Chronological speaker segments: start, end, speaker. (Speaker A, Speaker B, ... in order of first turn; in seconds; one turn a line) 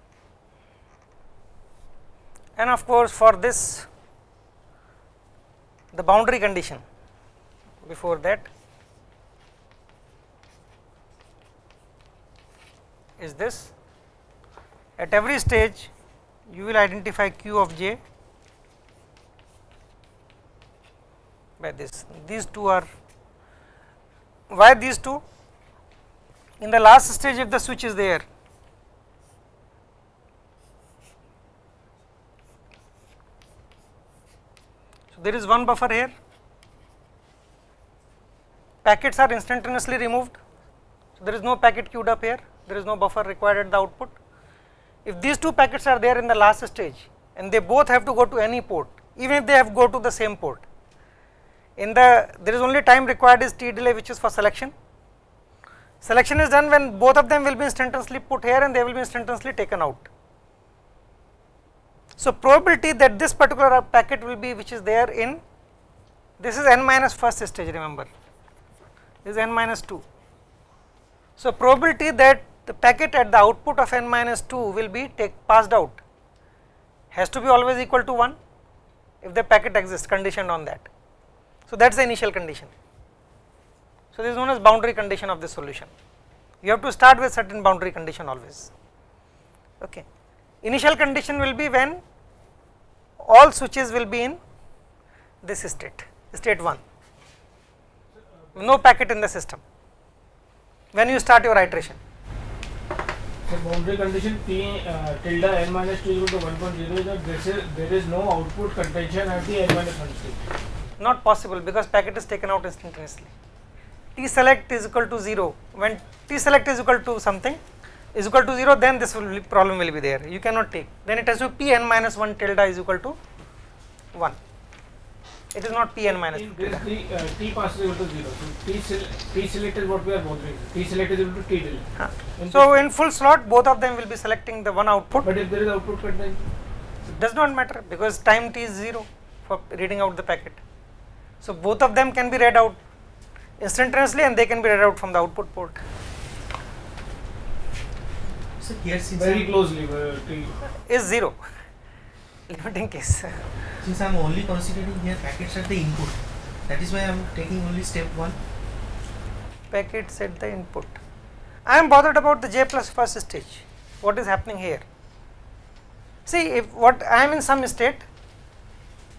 Speaker A: 2.6-3.9
Speaker A: 5.9-6.8
Speaker A: 7.8-8.5
Speaker A: 13.2-13.7
Speaker A: 15.0-15.9
Speaker A: 16.5-18.0
Speaker A: 21.6-22.9
Speaker A: 24.5-25.2
Speaker A: 26.6-28.2
Speaker A: 35.1-36.1
Speaker A: 38.9-40.4
Speaker A: 41.2-44.1
Speaker A: 45.0-50.6
Speaker A: 51.8-54.7
Speaker A: 56.0-60.1
Speaker A: 62.2-65.4
Speaker A: 66.4-68.1
Speaker A: 69.2-70.0
Speaker A: 71.4-76.0
Speaker A: 77.1-78.4
Speaker A: 79.2-80.9
Speaker A: 81.7-82.7
Speaker A: 84.1-85.9
Speaker A: 86.6-88.7
Speaker A: 90.6-92.0
Speaker A: 93.2-94.4
Speaker A: 95.4-96.8
Speaker A: 98.6-99.6
Speaker A: 100.9-102.0
Speaker B: 103.5-110.5
Speaker A: 111.0-113.3
Speaker A: 114.2-117.6
Speaker A: 118.2-123.2
Speaker A: 125.5-126.9
Speaker B: 126.3-132.7
Speaker A: 132.0-135.3
Speaker B: 135.2-136.5
Speaker A: 137.1-140.6
Speaker A: 141.4-142.8
Speaker A: 143.6-145.8
Speaker C: 148.6-149.6
Speaker B: 149.2-150.5
Speaker A: 150.9-151.4
Speaker A: 152.5-153.4
Speaker C: 153.8-158.4
Speaker A: 159.7-161.0
Speaker A: 161.7-164.8
Speaker A: 166.3-168.1